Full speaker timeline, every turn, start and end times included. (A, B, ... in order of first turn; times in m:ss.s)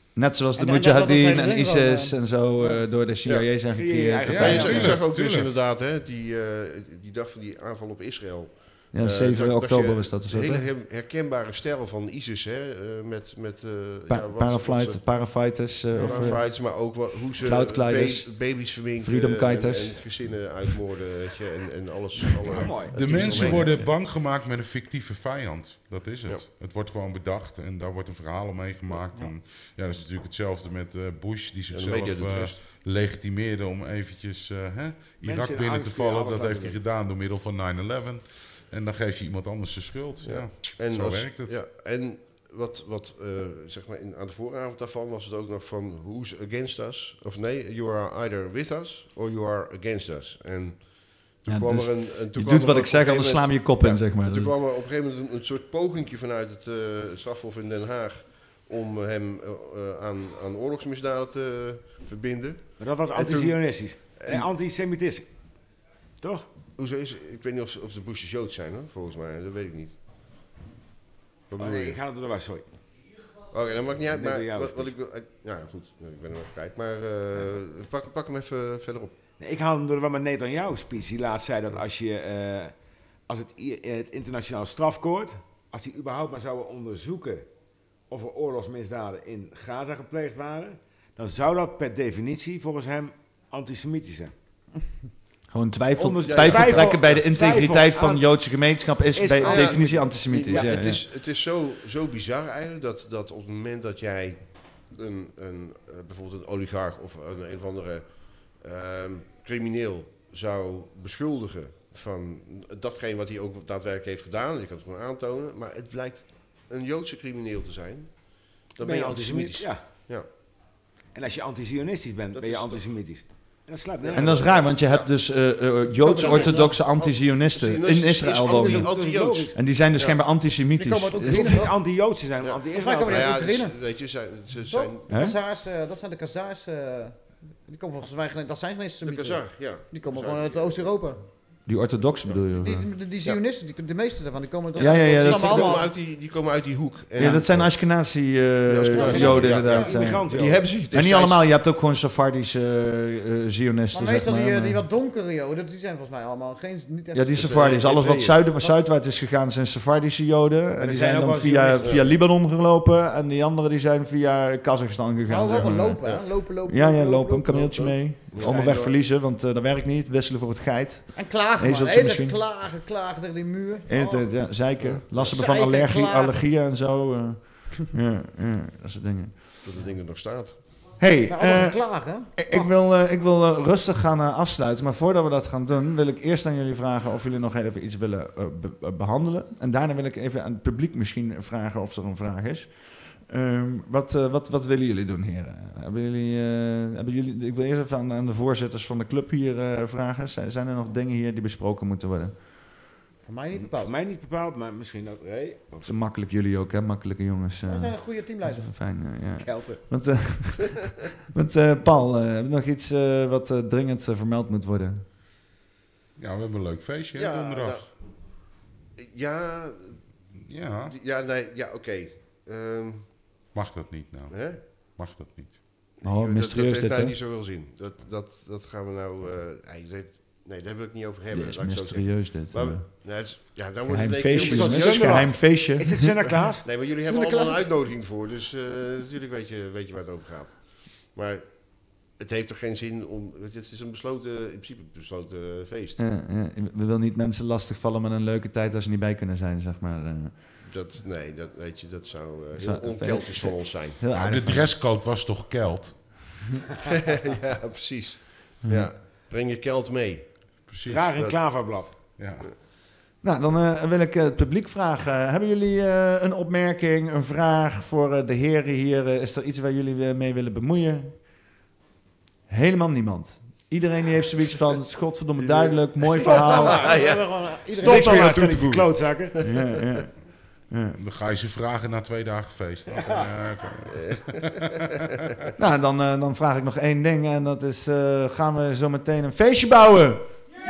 0:00.2-0:04.9 A
0:00.6-0:02.8 B
0:03.7-0:05.0 C
0:04.3-0:15.0 D
0:04.3-0:05.5 E
0:08.9-0:10.6 A
0:14.1-0:20.1 A
0:15.9-0:23.7 D
0:22.5-0:41.6 E
0:22.6-0:23.6 C
0:23.2-0:23.9 A
0:31.7-0:32.7 D
0:35.2-0:36.8 C
0:40.2-1:04.4 D
0:51.5-0:54.5 A
1:02.8-1:05.3 C
1:06.2-1:06.5 C
1:06.8-1:10.0 D
1:11.5-1:12.0 D
1:11.6-1:12.6 C
1:13.5-1:19.1 D
1:14.1-1:14.9 C
1:19.4-1:22.7 C
1:23.3-1:27.5 C
1:28.1-1:34.3 C
1:35.5-1:41.0 A
1:36.0-1:38.3 C
1:36.3-1:36.9 D
1:39.1-1:40.7 C
1:39.4-2:00.3 D
1:58.8-1:59.8 C
2:01.1-2:04.6 C
2:02.4-2:02.8 D
2:04.0-2:05.1 D
2:04.2-2:11.6 A
2:06.0-2:10.2 D
2:06.1-2:06.6 B
2:08.5-2:09.6 C
2:10.7-2:11.8 B
2:11.3-2:13.4 C
2:12.4-2:15.1 D
2:12.7-2:13.8 B
2:14.7-2:21.2 B
2:15.1-2:15.4 A
2:19.0-2:21.0 D
2:21.6-2:22.9 A
2:22.6-2:25.9 B
2:24.8-2:28.0 D
2:24.8-2:25.8 A
2:27.2-2:34.8 A
2:28.6-2:31.5 D
2:28.9-2:30.2 B
2:29.0-2:30.7 C
2:33.9-2:37.5 B
2:37.1-2:52.4 A
2:37.3-2:38.5 D
2:40.8-2:42.0 C
2:41.8-2:42.1 D
2:45.3-2:47.6 B
2:45.4-2:46.3 D
2:47.5-2:48.9 D
2:48.4-2:48.9 C
2:51.2-2:54.6 B
2:53.9-2:59.6 A
2:54.8-2:55.3 D
2:55.2-2:56.4 B
2:59.6-3:00.9 D
3:01.0-3:22.7 A
3:01.3-3:02.7 B
3:23.2-3:23.9 B
3:23.5-3:25.9 C
3:25.8-3:35.0 A
3:27.6-3:28.7 B
3:29.4-3:29.8 C
3:36.2-3:37.9 E
3:37.2-3:37.9 D
3:39.0-3:40.1 D
3:40.4-3:40.9 E
3:40.9-3:43.4 D
3:43.5-3:45.7 E
3:44.3-3:44.7 D
3:45.9-3:55.4 D
3:46.0-3:47.1 A
3:51.3-3:52.9 A
3:53.9-3:56.4 A
3:54.3-3:56.6 C
3:56.6-4:06.0 D
3:57.0-3:57.7 B
4:06.0-4:10.4 A
4:10.6-4:14.1 D
4:12.6-4:14.8 A
4:14.1-4:16.3 E
4:16.8-4:20.6 D
4:20.6-4:21.1 E
4:20.9-4:22.0 C
4:21.1-4:21.4 D
4:22.2-4:22.5 E
4:23.2-4:31.4 A
4:32.5-4:36.9 A
4:35.4-4:39.8 D
4:36.2-4:37.1 C
4:36.3-4:38.5 B
4:37.8-4:39.3 C
4:39.4-4:40.1 A
4:40.7-4:41.0 A
4:40.9-4:45.3 E
4:43.9-4:44.2 D
4:45.6-4:50.3 A